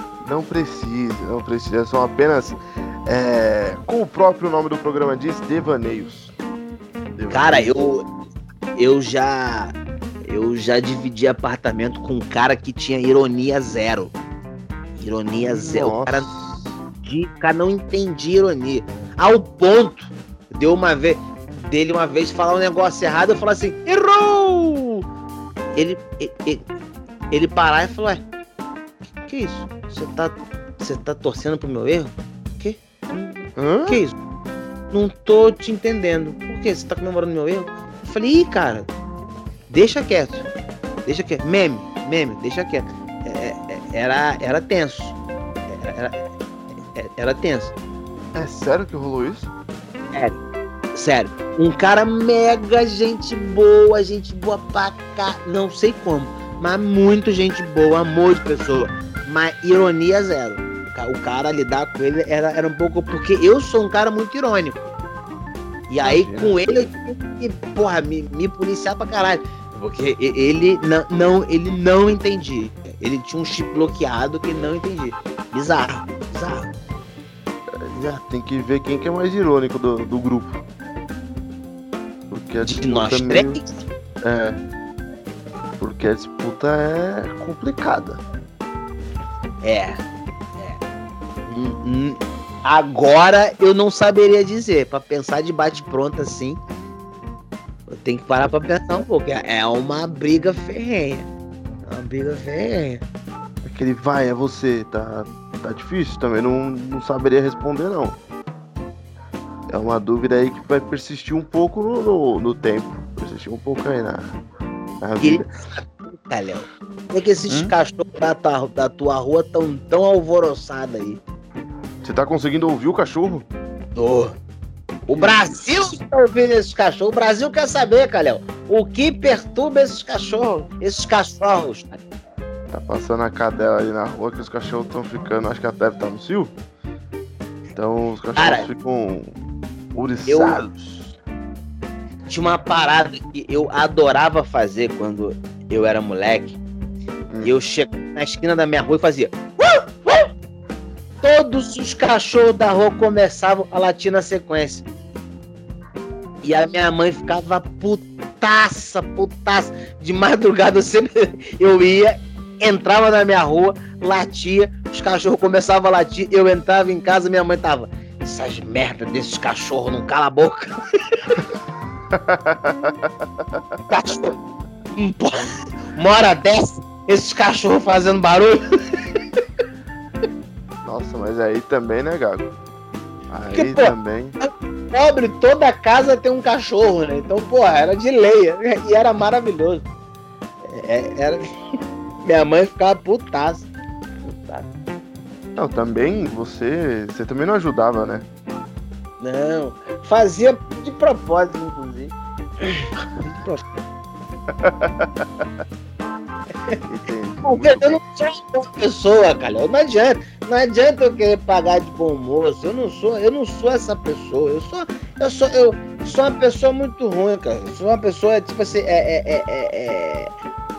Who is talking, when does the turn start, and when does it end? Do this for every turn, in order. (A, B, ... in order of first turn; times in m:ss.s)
0:00.2-0:06.3 A
0:07.1-0:07.8 A
0:07.3-0:08.1 B
0:08.8-0:14.1 B
0:15.0-0:16.3 B
0:15.4-0:16.8 A
0:17.0-0:25.0 B
0:25.7-0:26.7 B
0:27.3-0:28.2 B
0:29.2-0:34.1 B
0:33.6-0:34.0 A
0:34.9-0:38.9 B
0:39.7-0:40.5 B
0:41.0-0:46.3 B
0:46.9-0:47.7 B
0:48.3-0:49.5 A
0:50.1-0:50.4 B
0:50.9-1:04.8 B
1:05.9-1:16.7 B
1:06.0-1:06.6 A
1:17.8-1:20.6 A
1:17.9-1:18.2 B
1:22.3-1:23.6 A
1:22.6-1:23.7 B
1:24.2-1:24.6 A
1:25.8-1:28.2 A
1:29.6-1:30.0 B
1:31.5-1:36.6 B
1:37.9-1:41.3 B
1:41.8-1:43.0 B
1:43.6-1:48.2 A
1:49.7-1:54.3 A
1:55.0-1:55.5 A
1:55.2-2:01.2 B
1:57.5-1:57.8 A
2:02.0-2:03.5 A
2:04.0-2:04.4 B
2:05.1-2:12.0 B
2:05.1-2:05.6 A
2:12.7-2:16.5 A
2:17.8-2:19.4 A
2:18.4-2:18.7 B
2:19.9-2:21.1 A
2:20.3-2:20.7 B
2:22.3-2:26.6 B
2:27.4-2:30.3 B
2:31.2-2:34.8 B
2:36.4-2:51.3 B
2:52.1-2:53.8 A
2:53.9-2:54.4 B
2:54.9-2:58.6 B
3:00.8-3:02.5 A
3:03.3-3:04.4 A
3:03.5-3:09.9 B
3:10.6-3:11.5 B
3:12.2-3:13.7 B
3:14.2-3:14.7 B
3:15.6-3:18.3 A
3:19.2-3:23.6 B
3:24.5-3:25.5 A
3:26.8-3:28.0 A
3:27.4-3:40.3 B